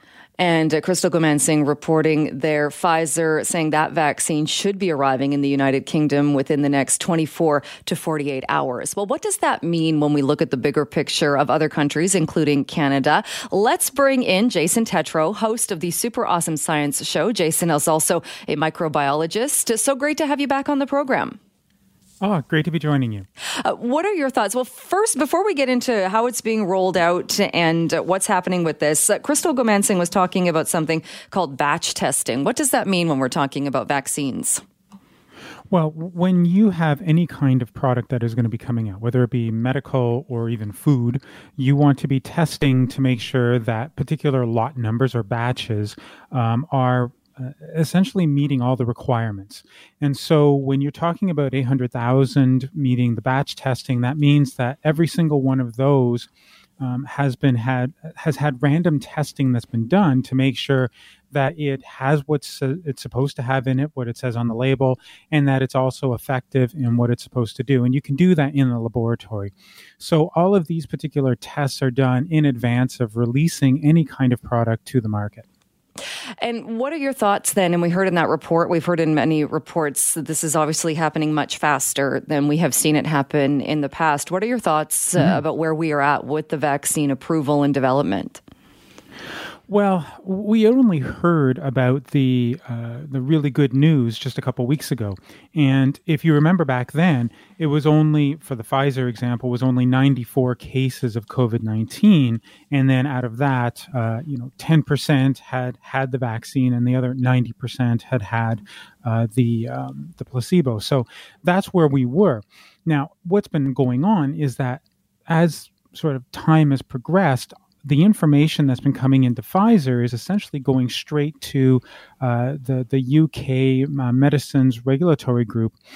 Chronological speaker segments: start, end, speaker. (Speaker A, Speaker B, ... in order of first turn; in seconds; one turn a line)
Speaker A: 0.4-21.4
Speaker B: 22.2-23.3
Speaker A: 23.6-34.6
Speaker B: 35.7-56.3
Speaker B: 56.8-75.4
Speaker A: 76.4-88.4
Speaker B: 89.7-125.8